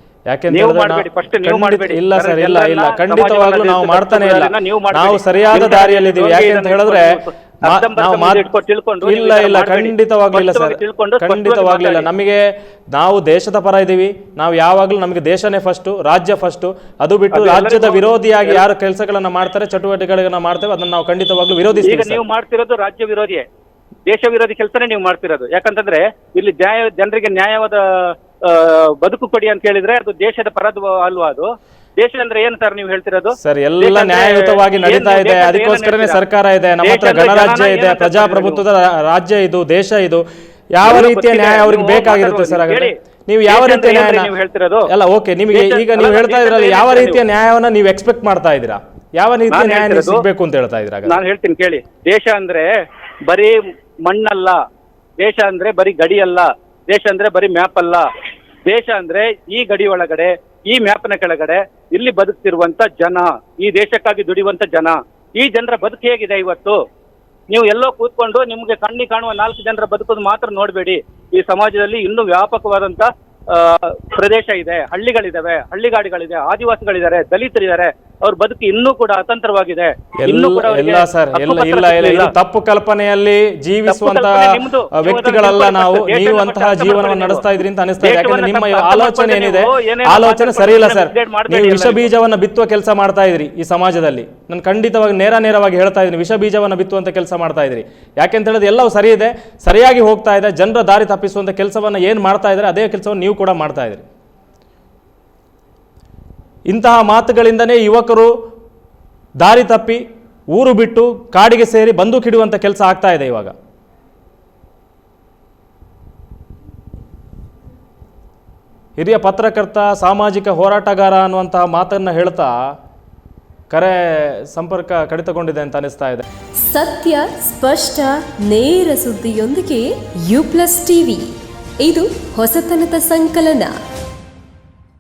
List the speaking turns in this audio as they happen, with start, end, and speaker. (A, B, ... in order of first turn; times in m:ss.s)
0:00.3-0:07.1 A
0:00.5-0:12.1 B
0:07.6-0:08.5 A
0:09.0-0:22.2 A
0:17.3-0:18.6 B
0:21.8-0:23.4 B
0:24.1-0:36.2 B
0:33.4-0:44.3 A
0:36.8-0:38.6 B
0:40.8-0:43.0 B
0:43.5-0:44.9 B
0:44.9-0:51.2 A
0:45.5-0:47.2 B
0:49.5-0:50.2 B
0:51.1-0:52.7 B
0:53.3-0:54.6 B
0:55.2-0:58.0 B
0:58.7-1:06.8 B
1:07.5-1:22.3 B
1:20.2-1:44.0 A
1:23.9-1:32.1 B
1:46.7-1:48.3 A
1:49.4-1:53.5 A
1:59.0-2:02.7 A
2:03.7-2:06.2 A
2:06.6-2:13.8 C